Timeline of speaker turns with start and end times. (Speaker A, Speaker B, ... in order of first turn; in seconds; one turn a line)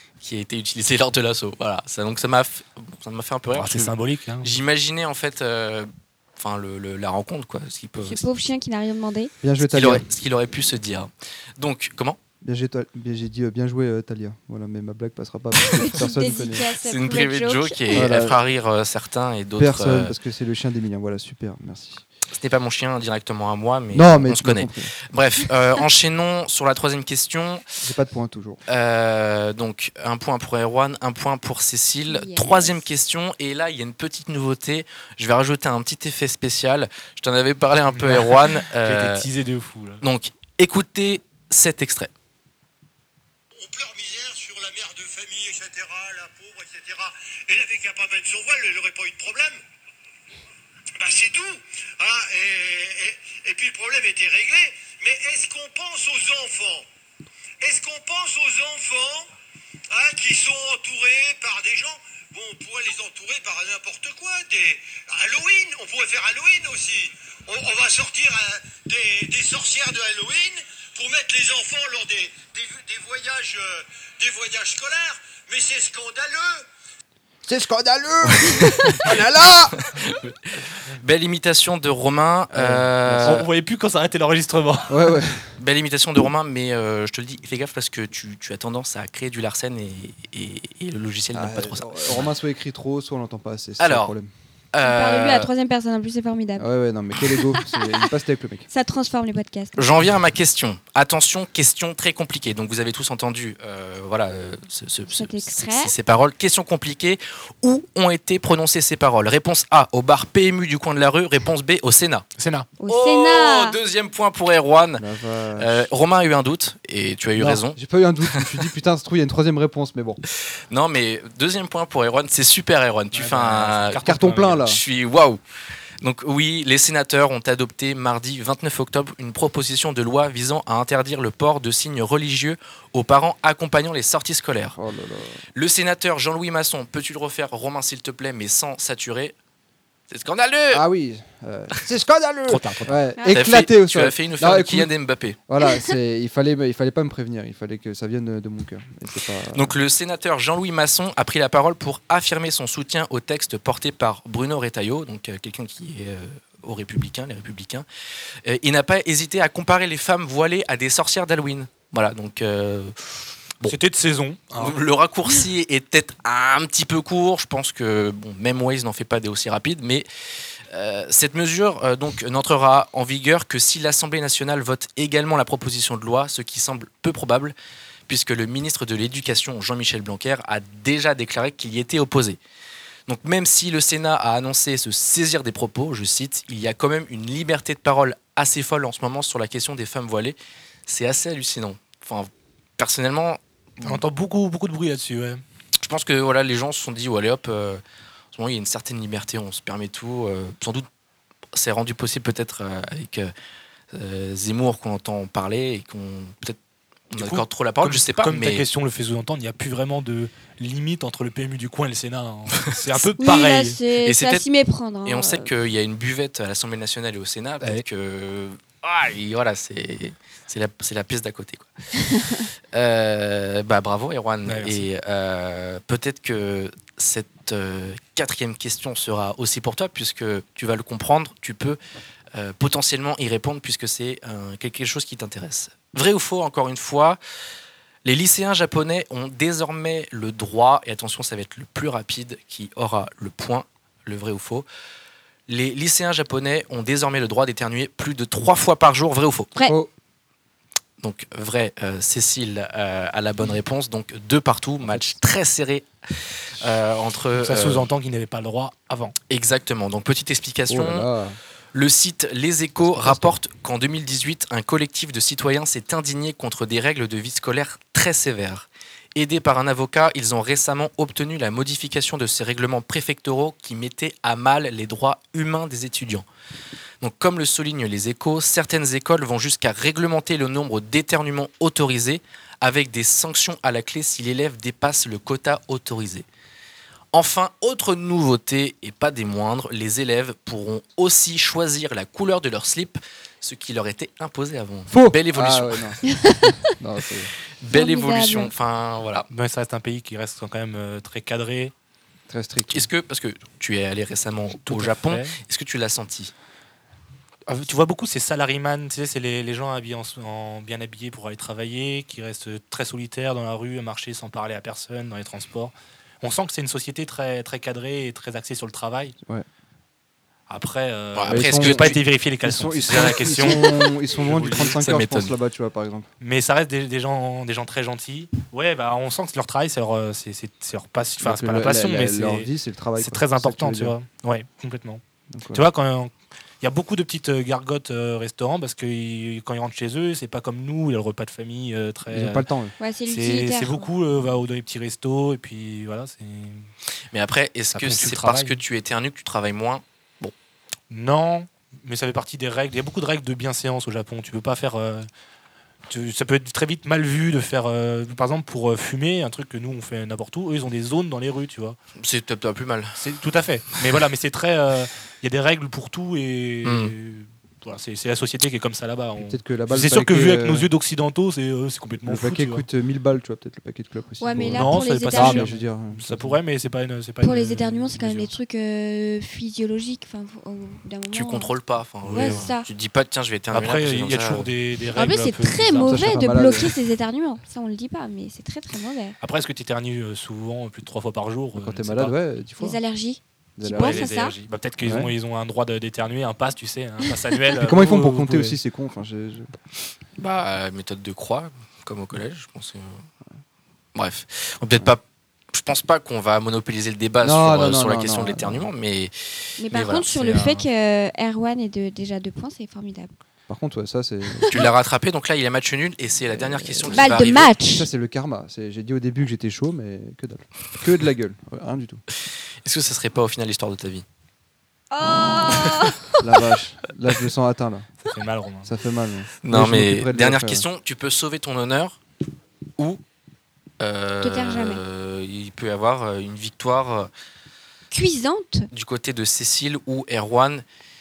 Speaker A: 0.2-8.2
Speaker B: 3.5-4.5
Speaker C: 8.0-9.3
Speaker D: 9.4-10.0
Speaker A: 9.6-12.2
Speaker D: 12.4-16.7
Speaker C: 15.7-18.1
Speaker A: 16.8-20.1
Speaker D: 17.9-18.4
Speaker D: 19.6-22.0
Speaker A: 22.3-27.6
Speaker D: 23.9-24.9
Speaker D: 27.8-28.6
Speaker A: 28.7-39.2
Speaker C: 32.1-32.9
Speaker B: 37.9-40.0
Speaker A: 40.0-42.1
Speaker E: 43.5-49.6
Speaker E: 51.0-56.9
Speaker E: 57.6-59.3
Speaker E: 59.9-76.7
Speaker D: 77.5-79.8
Speaker A: 78.2-79.2
Speaker A: 79.7-83.5
Speaker D: 82.5-83.5
Speaker B: 83.2-85.2
Speaker D: 84.9-85.5
Speaker A: 85.6-92.3
Speaker D: 91.3-94.3
Speaker A: 93.8-94.1
Speaker A: 94.7-95.5
Speaker C: 94.8-96.7
Speaker D: 96.6-98.7
Speaker C: 97.5-97.9
Speaker C: 98.7-99.8
Speaker A: 99.8-112.3
Speaker C: 105.1-105.9
Speaker B: 112.4-112.7
Speaker C: 112.8-113.8
Speaker A: 112.9-115.0
Speaker D: 115.0-115.9
Speaker A: 115.6-117.8
Speaker B: 117.4-117.6
Speaker D: 117.7-120.2
Speaker A: 118.4-118.6
Speaker A: 120.7-124.0
Speaker B: 123.1-124.7
Speaker D: 124.0-124.8
Speaker A: 124.6-125.4
Speaker A: 126.0-134.8
Speaker D: 134.7-135.4
Speaker A: 135.5-139.3
Speaker A: 140.1-140.8
Speaker D: 140.7-144.9
Speaker B: 142.5-142.9
Speaker C: 143.2-143.4
Speaker A: 143.3-145.4
Speaker D: 145.5-149.8
Speaker A: 149.5-157.8
Speaker A: 158.4-163.8
Speaker B: 163.7-164.8
Speaker A: 164.6-170.1
Speaker A: 170.7-177.5
Speaker A: 178.1-182.4
Speaker A: 183.1-190.3
Speaker A: 190.9-194.0
Speaker B: 193.8-195.4
Speaker A: 195.8-197.8
Speaker A: 198.3-200.8
Speaker A: 201.5-203.3
Speaker A: 203.9-206.6
Speaker A: 207.1-208.7
Speaker B: 207.1-213.8
Speaker A: 212.6-213.1
Speaker C: 213.2-215.5
Speaker A: 214.0-214.4
Speaker A: 215.0-221.9
Speaker C: 222.1-222.4
Speaker A: 222.7-231.8
Speaker B: 224.4-224.9
Speaker A: 232.3-237.2
Speaker A: 238.0-244.6
Speaker A: 245.5-249.5
Speaker D: 249.6-249.9
Speaker A: 251.0-257.9
Speaker D: 254.8-255.1
Speaker B: 257.4-259.1
Speaker A: 259.3-261.1
Speaker D: 260.7-261.4
Speaker A: 261.7-276.2
Speaker A: 277.0-286.2
Speaker A: 287.1-296.0
Speaker D: 294.9-297.3
Speaker C: 296.0-296.7
Speaker A: 297.6-299.2
Speaker C: 297.7-298.5
Speaker B: 299.3-301.7
Speaker D: 302.3-302.9
Speaker A: 302.7-306.3
Speaker B: 304.7-305.4
Speaker B: 307.5-319.1
Speaker B: 320.5-324.8
Speaker A: 321.1-322.0
Speaker D: 321.3-326.1
Speaker A: 322.9-323.8
Speaker A: 324.5-325.3
Speaker B: 326.2-335.0
Speaker D: 331.2-333.9
Speaker D: 335.3-335.6
Speaker B: 335.5-342.4
Speaker D: 342.1-342.7
Speaker C: 342.8-343.9
Speaker B: 343.1-346.7
Speaker A: 347.1-350.3
Speaker B: 347.7-348.6
Speaker B: 350.9-355.1
Speaker B: 355.9-361.8
Speaker A: 362.0-363.0
Speaker B: 363.0-372.6
Speaker A: 366.6-366.9
Speaker D: 369.2-370.7
Speaker D: 372.0-376.4
Speaker C: 374.2-375.5
Speaker B: 374.4-378.3
Speaker C: 377.2-381.5
Speaker A: 381.1-384.5
Speaker B: 382.0-382.5
Speaker C: 382.1-382.7
Speaker B: 383.5-386.1
Speaker C: 384.9-389.2
Speaker D: 385.8-386.7
Speaker B: 389.2-392.1
Speaker D: 391.5-392.8
Speaker C: 392.6-394.3
Speaker D: 393.6-394.1
Speaker B: 393.7-398.6
Speaker D: 394.8-395.1
Speaker D: 397.5-399.5
Speaker A: 400.2-402.9
Speaker A: 403.9-410.2
Speaker D: 407.2-408.7
Speaker C: 409.6-413.1
Speaker B: 410.1-410.6
Speaker D: 413.5-414.7
Speaker A: 414.5-417.5
Speaker D: 416.3-422.0
Speaker C: 416.9-417.9
Speaker A: 422.6-424.0
Speaker C: 424.9-426.2
Speaker D: 426.2-427.9
Speaker B: 428.0-428.7
Speaker D: 428.6-430.6
Speaker A: 429.4-432.0
Speaker A: 433.8-437.1
Speaker C: 434.2-434.8
Speaker C: 437.9-438.7
Speaker A: 438.7-440.6